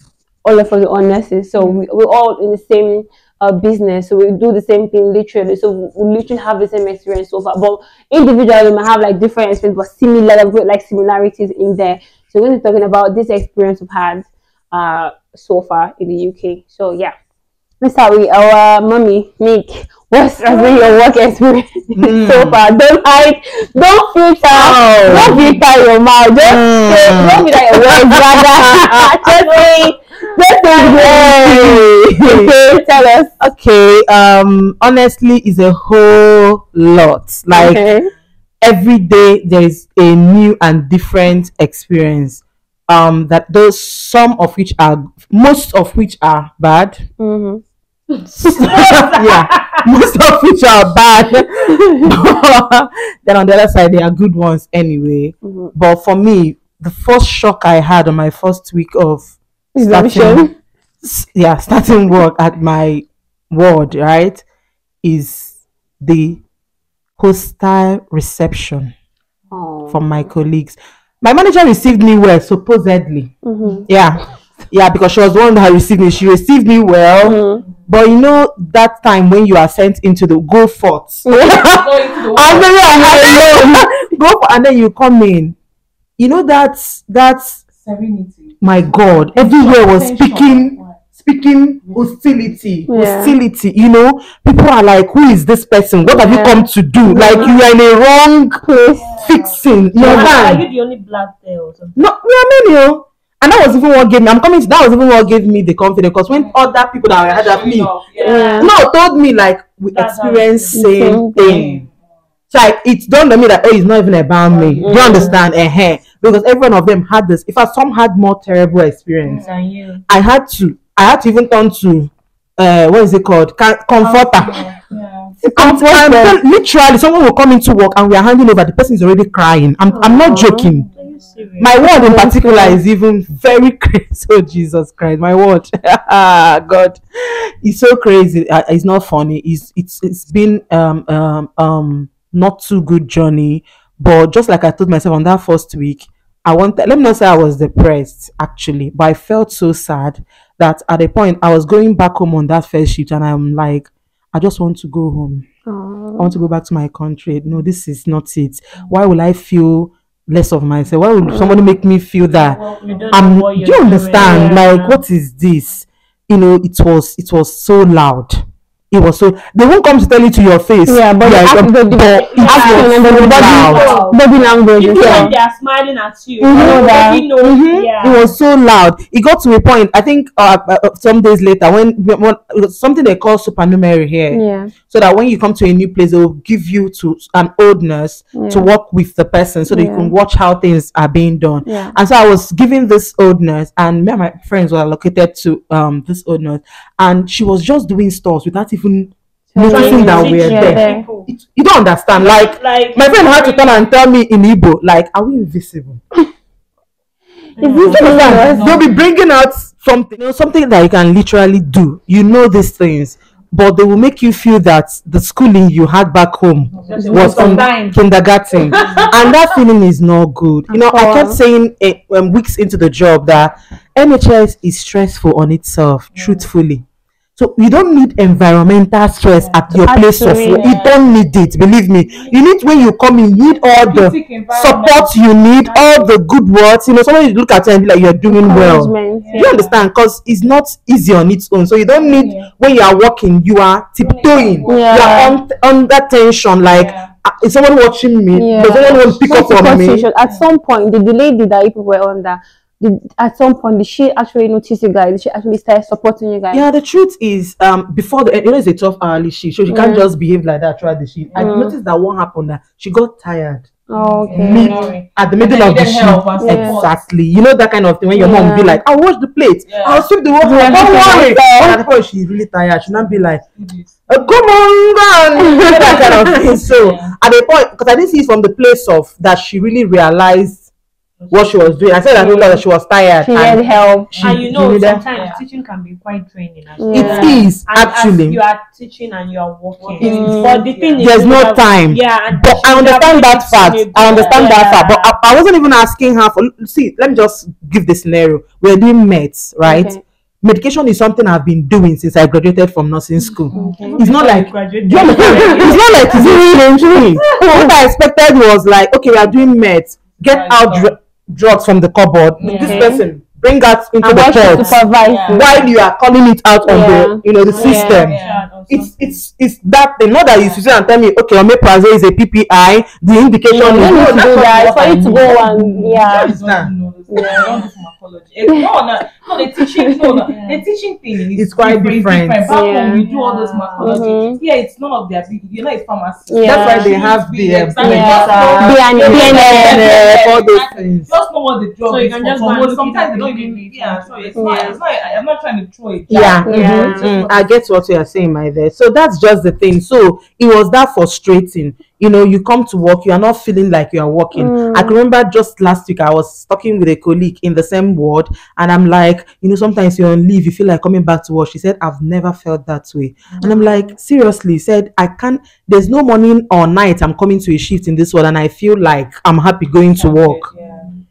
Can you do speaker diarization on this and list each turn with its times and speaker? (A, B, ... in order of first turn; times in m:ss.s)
0:00.4-0:17.1 A
0:17.8-0:33.3 A
0:21.9-0:22.6 B
0:24.5-0:25.4 B
0:25.2-0:25.5 C
0:26.4-0:29.0 B
0:29.1-0:29.9 D
0:30.8-0:32.5 B
0:33.4-0:37.8 B
0:37.5-0:38.1 A
0:38.6-0:47.0 B
0:47.2-0:47.6 A
0:48.5-0:59.3 B
0:48.7-0:49.8 D
0:51.5-0:52.1 A
0:55.4-0:55.7 A
0:59.7-1:00.5 A
0:59.8-1:00.5 B
1:01.0-1:04.4 B
1:05.0-1:06.4 B
1:07.2-1:08.9 B
1:09.5-1:10.0 A
1:09.9-1:25.5 B
1:13.4-1:13.9 A
1:17.2-1:17.6 A
1:21.2-1:21.8 A
1:21.4-1:23.2 C
1:22.9-1:23.8 A
1:26.2-1:27.6 B
1:27.7-1:31.0 C
1:28.6-1:38.6 B
1:31.8-1:32.6 C
1:32.9-1:33.3 A
1:36.0-1:37.5 A
1:37.2-1:37.5 C
1:38.6-1:39.2 A
1:39.0-1:40.6 C
1:39.2-1:40.6 B
1:40.0-1:42.0 D
1:42.0-1:47.9 B
1:46.3-1:46.6 C
1:47.2-1:48.6 C
1:48.1-1:48.7 D
1:48.2-1:48.7 A
1:48.6-1:51.8 B
1:49.9-1:50.8 D
1:50.7-1:51.6 A
1:51.4-1:51.9 C
1:52.5-1:59.4 B
1:54.5-1:55.4 C
1:54.8-1:55.3 A
1:59.2-1:59.7 C
1:59.3-2:00.0 D
2:00.1-2:04.6 B
2:04.0-2:05.3 C
2:05.4-2:06.4 A
2:05.6-2:10.8 B
2:10.0-2:10.7 A
2:10.8-2:11.5 C
2:11.0-2:11.8 D
2:11.6-2:17.0 B
2:11.8-2:12.8 A
2:17.6-2:35.4 B
2:35.6-2:36.3 A
2:36.2-2:42.6 B
2:41.2-2:41.6 A
2:42.4-2:43.2 C
2:42.6-2:45.0 D
2:43.1-2:53.9 B
2:44.2-2:44.6 A
2:50.8-2:55.3 A
2:52.0-2:58.3 D
2:53.6-2:54.1 C
2:55.0-2:55.3 B
2:56.4-2:57.2 A
2:56.5-2:56.9 B
2:57.4-3:26.0 B
3:04.3-3:04.7 A
3:08.3-3:08.7 A
3:09.7-3:10.1 A
3:11.6-3:11.9 A
3:19.5-3:21.0 A
3:19.6-3:21.3 D
3:22.1-3:23.9 D
3:27.6-3:28.3 D
3:27.6-3:28.8 A
3:27.8-3:28.9 C
3:27.9-3:46.8 B
3:36.7-3:38.0 C
3:37.0-3:37.6 A
3:37.4-3:37.6 D
3:38.5-3:39.4 C
3:40.7-3:41.4 A
3:46.1-3:46.5 C
3:47.4-4:10.0 B
3:49.4-3:51.1 C
3:49.9-3:50.8 A
3:52.1-3:52.4 C
3:53.8-3:56.1 C
3:58.3-3:59.3 A
3:59.2-3:59.8 C
4:02.0-4:02.5 C
4:04.0-4:05.3 C
4:04.7-4:05.3 A
4:06.7-4:07.1 C
4:08.3-4:16.6 A
4:16.5-4:23.7 B
4:19.7-4:20.0 A
4:21.3-4:21.6 C
4:21.4-4:21.7 A
4:23.9-4:24.9 A
4:24.0-4:27.0 C
4:24.3-4:33.4 B
4:26.4-4:26.8 A
4:28.1-4:28.8 A
4:29.7-4:31.2 C
4:30.4-4:31.8 A
4:33.0-4:34.1 C
4:34.1-4:40.6 B
4:35.4-4:36.2 A
4:35.6-4:37.1 C
4:41.2-4:42.6 C
4:41.3-4:45.1 B
4:43.2-4:44.1 A
4:44.1-4:45.4 C
4:44.2-4:55.1 D
4:46.8-4:47.4 A
4:46.9-4:48.4 B
4:47.0-4:47.4 C
4:49.8-4:51.3 C
4:50.0-4:50.6 A
4:51.0-5:26.7 B
4:59.6-5:00.0 A
5:03.5-5:04.1 C
5:03.5-5:04.0 A
5:03.8-5:06.1 D
5:05.0-5:06.3 C
5:05.3-5:05.5 A
5:06.1-5:07.7 A
5:10.2-5:10.9 C
5:12.4-5:13.0 C
5:12.4-5:13.0 A
5:14.0-5:15.5 A
5:14.6-5:15.7 C
5:16.6-5:18.1 A
5:17.4-5:18.5 C
5:17.4-5:19.2 D
5:20.3-5:20.6 C
5:23.5-5:26.3 A
5:23.8-5:47.5 C
5:27.1-5:27.5 A
5:27.2-5:27.7 D
5:29.6-5:30.2 A
5:30.3-5:30.6 D
5:31.3-5:32.5 B
5:32.4-5:33.1 A
5:33.0-5:34.1 D
5:33.8-5:34.4 A
5:36.3-5:36.9 A
5:36.4-5:41.1 B
5:37.8-5:39.8 D
5:37.8-5:40.2 A
5:41.8-5:44.8 D
5:44.4-5:44.8 A
5:46.1-6:10.5 B
5:46.1-5:47.1 A
5:54.3-5:55.0 A
6:03.3-6:03.7 C
6:10.0-6:10.9 C
6:10.6-6:10.8 D